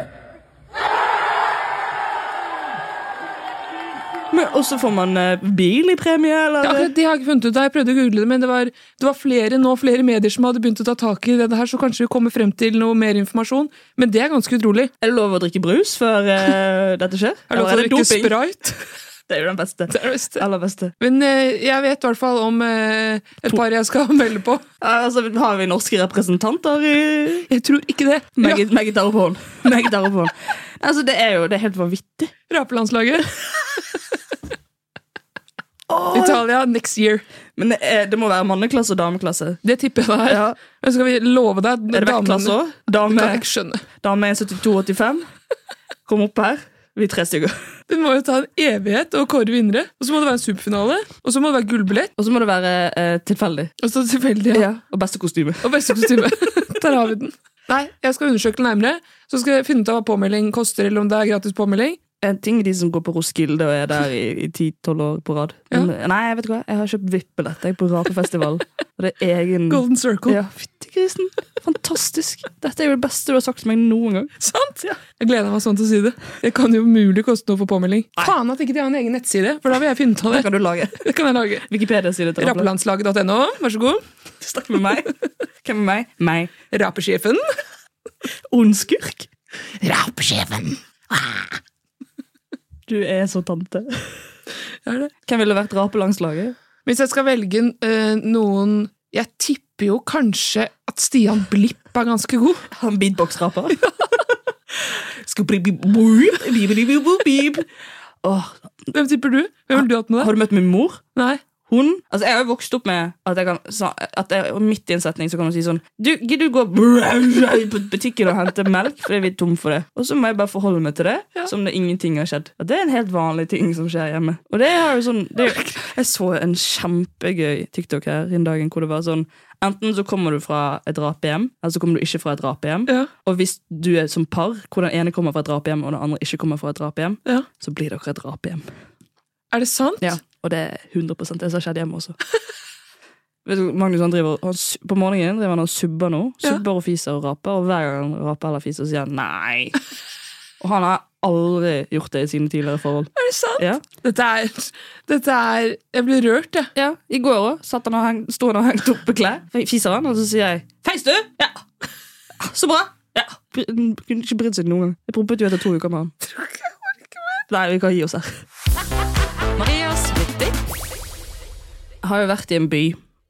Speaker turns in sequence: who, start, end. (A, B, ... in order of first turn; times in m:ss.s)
0:04.3-0:06.9 A
0:06.6-0:14.9 B
0:15.0-0:18.4 A
0:17.5-0:18.8 B
0:19.3-0:21.0 A
0:19.9-0:20.4 B
0:21.0-0:24.6 B
0:24.8-0:27.5 A
0:27.5-0:28.6 B
0:28.4-0:32.3 A
0:32.5-0:33.3 B
0:35.9-0:36.4 A
0:36.1-0:37.2 B
0:37.6-0:39.6 A
0:39.6-0:42.6 B
0:40.3-0:40.6 A
0:41.9-0:43.4 A
0:43.1-0:43.8 B
0:44.0-0:45.2 A
0:46.1-0:47.6 A
0:47.9-0:52.1 B
0:52.2-0:53.7 A
0:53.8-0:54.7 B
0:54.5-0:56.0 A
0:55.6-1:02.0 B
1:02.2-1:14.3 A
1:09.7-1:10.4 B
1:14.4-1:20.5 B
1:20.3-1:21.0 A
1:21.0-1:21.7 B
1:21.7-1:22.7 A
1:22.4-1:24.0 B
1:24.4-1:25.1 A
1:25.6-1:26.5 A
1:26.7-1:27.4 B
1:28.5-1:29.3 A
1:29.8-1:31.5 B
1:32.9-1:34.2 A
1:34.9-1:35.1 B
1:35.3-1:36.6 A
1:36.8-1:42.6 B
1:42.7-1:43.8 A
1:45.3-1:47.7 A
1:48.2-1:48.6 A
1:48.9-1:50.3 B
1:49.7-1:51.0 A
1:51.2-1:51.4 B
1:51.7-2:18.7 A
2:19.5-2:20.2 B
2:20.0-2:22.2 A
2:23.4-2:29.8 A
2:30.6-2:33.8 A
2:33.2-2:36.7 B
2:36.8-2:41.6 A
2:42.4-2:46.1 A
2:47.5-2:48.3 A
2:49.6-2:50.5 A
2:52.0-2:53.0 A